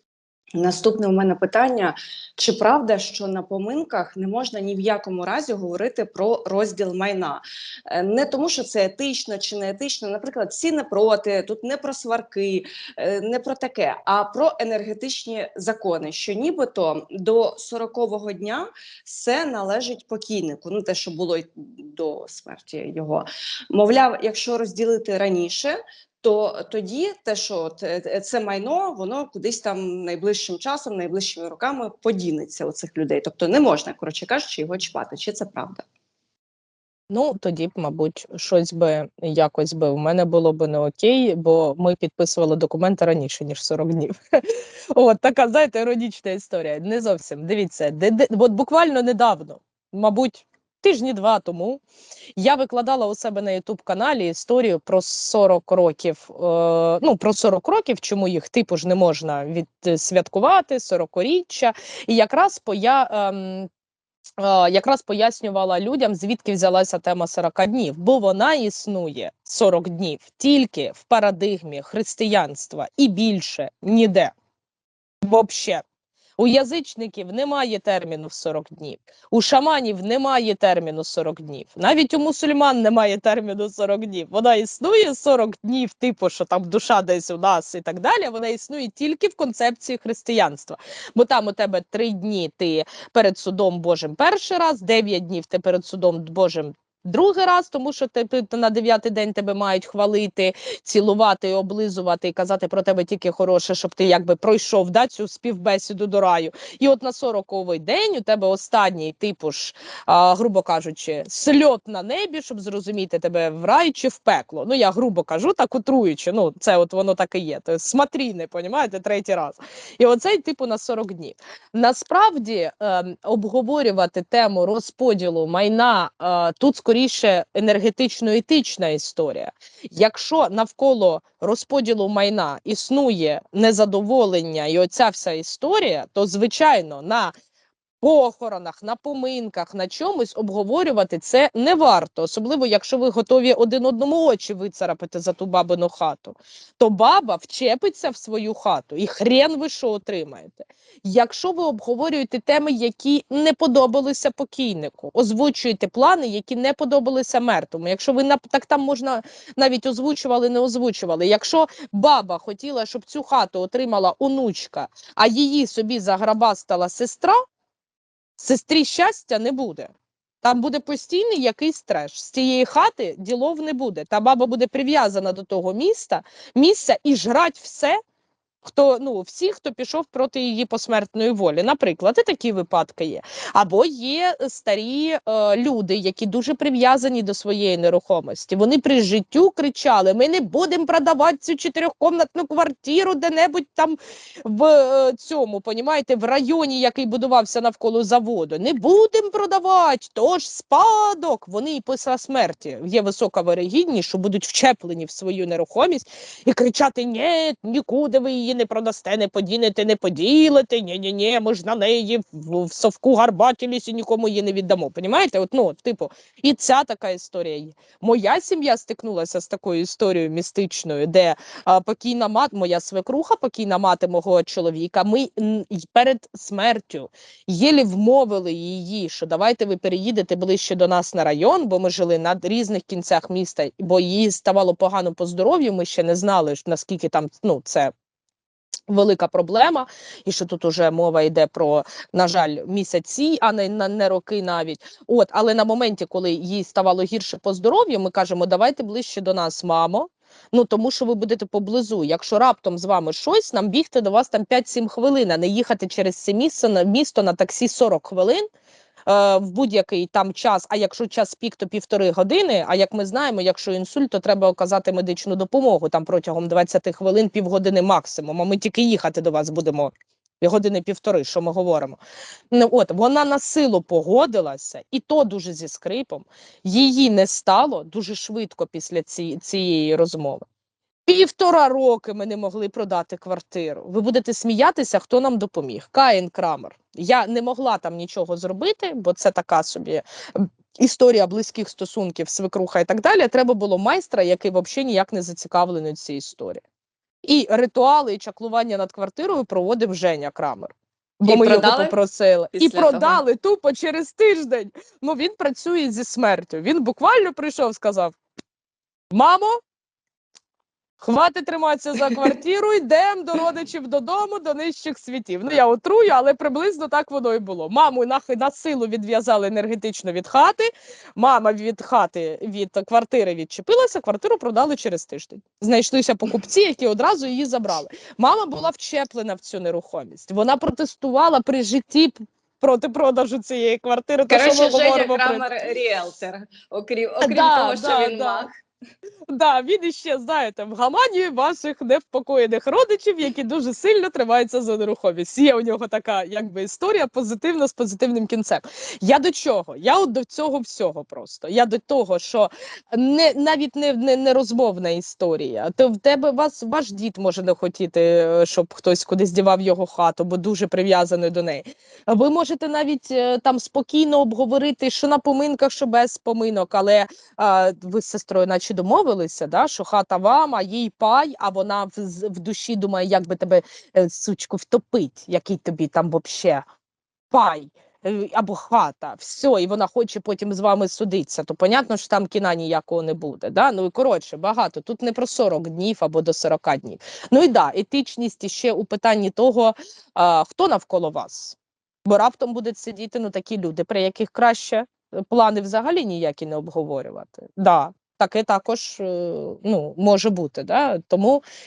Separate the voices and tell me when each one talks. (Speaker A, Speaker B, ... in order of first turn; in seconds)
Speaker A: 0.6-35.8, 301.2-302.0, 302.5-303.2, 334.3-338.5
Speaker B: 37.2-38.8, 41.9-43.7, 86.7-89.4, 95.9-96.3, 98.3-100.4, 101.4-102.0, 102.7-103.2, 108.7-109.2, 111.3-113.1, 113.7-114.3, 114.8-116.0, 116.6-117.9, 118.7-119.5, 122.0-122.4, 123.3-125.3, 127.5-129.4, 130.6-137.2, 138.8-139.1, 139.9-146.3, 146.9-167.2, 168.5-169.9, 170.5-177.9, 178.7-193.9, 194.5-237.8, 238.9-258.4, 259.1-269.9, 270.4-272.0, 272.5-280.4, 281.1-290.0, 290.8-296.6, 297.2-300.7, 301.2-308.1, 309.1-309.5, 311.0-320.7, 321.2-335.4, 337.2-338.5, 339.3-376.6, 377.3-401.4
Speaker C: 37.6-42.2, 42.7-44.1, 45.0-51.8, 52.4-63.7, 64.4-74.3, 75.3-75.8, 76.4-127.7, 128.5-131.8, 132.4-133.6, 134.2-136.6, 138.0-140.1, 141.5-142.2, 144.4-145.4, 148.6-148.9, 176.6-177.0, 181.4-181.9, 183.0-183.4